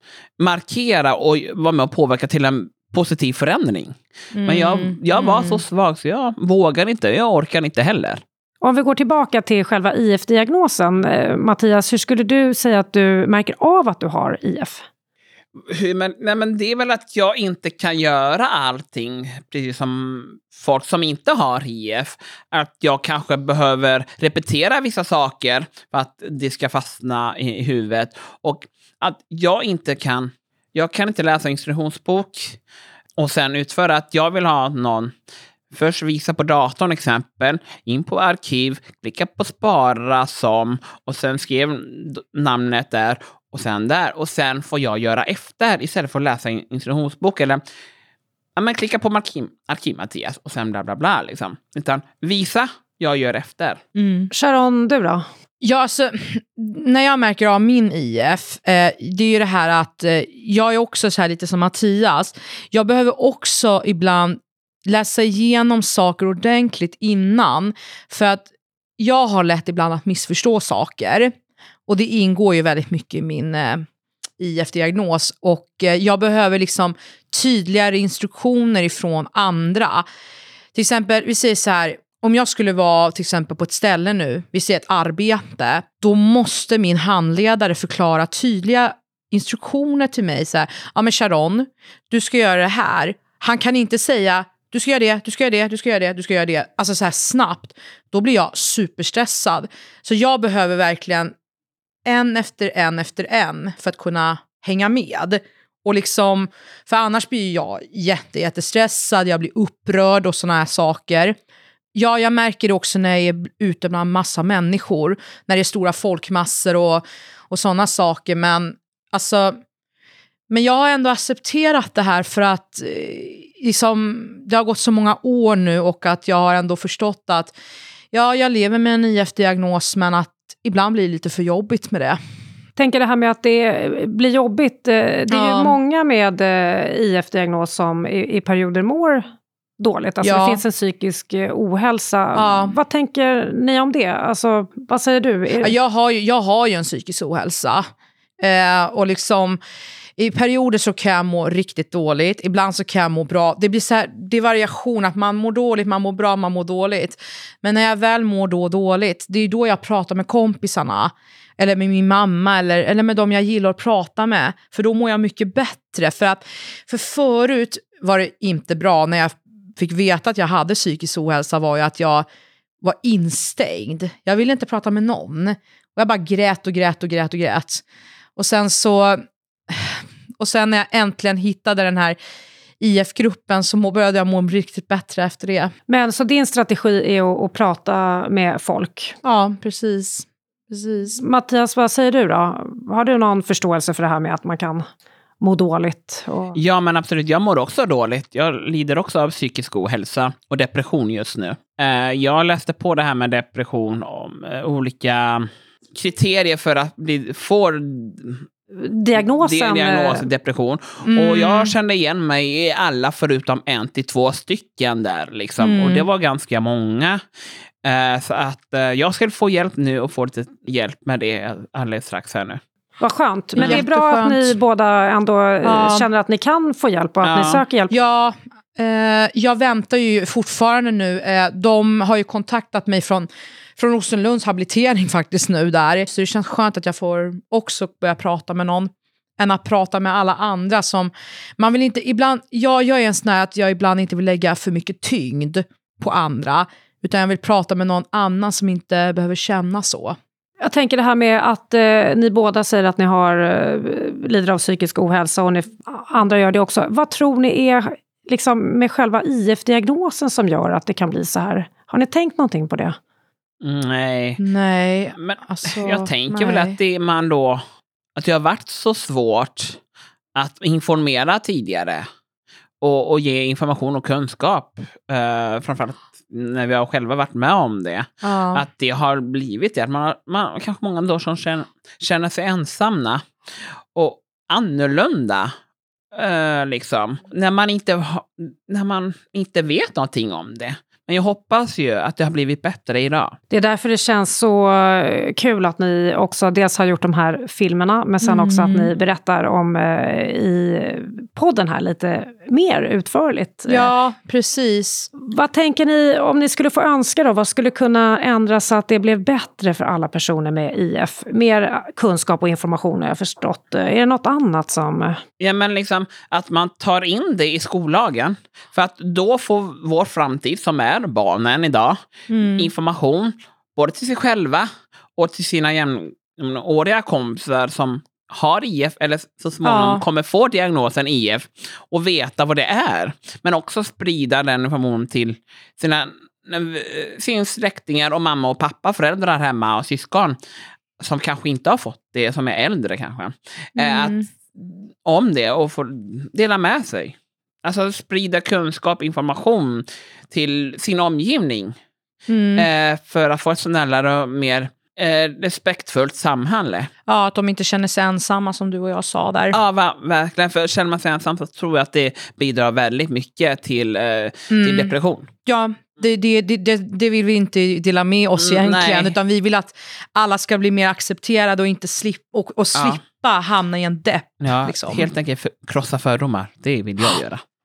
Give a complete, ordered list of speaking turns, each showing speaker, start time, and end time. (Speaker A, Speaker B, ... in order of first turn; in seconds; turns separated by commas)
Speaker A: 0.4-8.2, Speaker B: 4.3-5.6, Speaker C: 8.6-14.8, Speaker A: 15.7-32.6, Speaker A: 33.2-35.1, Speaker A: 35.7-47.6, Speaker A: 48.6-53.8, Speaker B: 54.0-54.3, Speaker C: 54.3-55.2, Speaker B: 55.6-68.5, Speaker B: 69.0-71.3, Speaker B: 71.9-73.9, Speaker B: 74.4-80.0, Speaker B: 80.7-101.3, Speaker B: 102.0-111.4, Speaker B: 112.0-119.6, Speaker B: 120.5-127.5, Speaker B: 128.1-132.2, Speaker C: 132.8-139.3, Speaker B: 135.3-135.8, Speaker C: 139.8-145.7, Speaker B: 140.2-140.6, Speaker B: 142.3-142.8, Speaker B: 145.6-147.9, Speaker B: 148.4-149.6, Speaker B: 150.2-172.3, Speaker B: 172.8-177.8, Speaker B: 178.4-182.2, Speaker B: 182.8-185.7, Speaker C: 185.9-189.2, Speaker B: 189.2-191.2, Speaker C: 191.2-194.9, Speaker C: 195.4-196.6, Speaker A: 196.6-208.5, Speaker C: 208.7-210.3, Speaker A: 209.2-217.2, Speaker B: 211.0-211.7, Speaker B: 215.6-216.1, Speaker A: 217.8-222.6, Speaker C: 223.0-227.9, Speaker B: 223.6-224.6, Speaker B: 225.6-226.1, Speaker A: 227.2-227.6, Speaker B: 227.9-250.2, Speaker C: 250.6-263.0, Speaker A: 263.6-264.4, Speaker B: 264.4-266.8, Speaker A: 265.2-267.6, Speaker A: 268.2-269.8, Speaker A: 270.4-272.1, Speaker A: 272.8-283.2, Speaker B: 278.2-278.6, Speaker A: 283.9-285.5, Speaker A: 286.1-293.4, Speaker C: 293.5-303.9, Speaker B: 298.2-298.9, Speaker B: 303.7-305.1, Speaker C: 305.2-315.2, Speaker A: 315.4-322.0, Speaker B: 322.3-322.7, Speaker A: 322.6-340.4, Speaker B: 329.6-330.0, Speaker A: 341.0-351.8, Speaker B: 343.8-344.3, Speaker B: 352.3-352.7, Speaker A: 352.6-356.9, Speaker B: 357.1-359.6, Speaker A: 359.5-365.3, Speaker B: 364.5-364.9, Speaker B: 365.5-375.1, Speaker A: 368.4-369.2, Speaker A: 374.4-377.4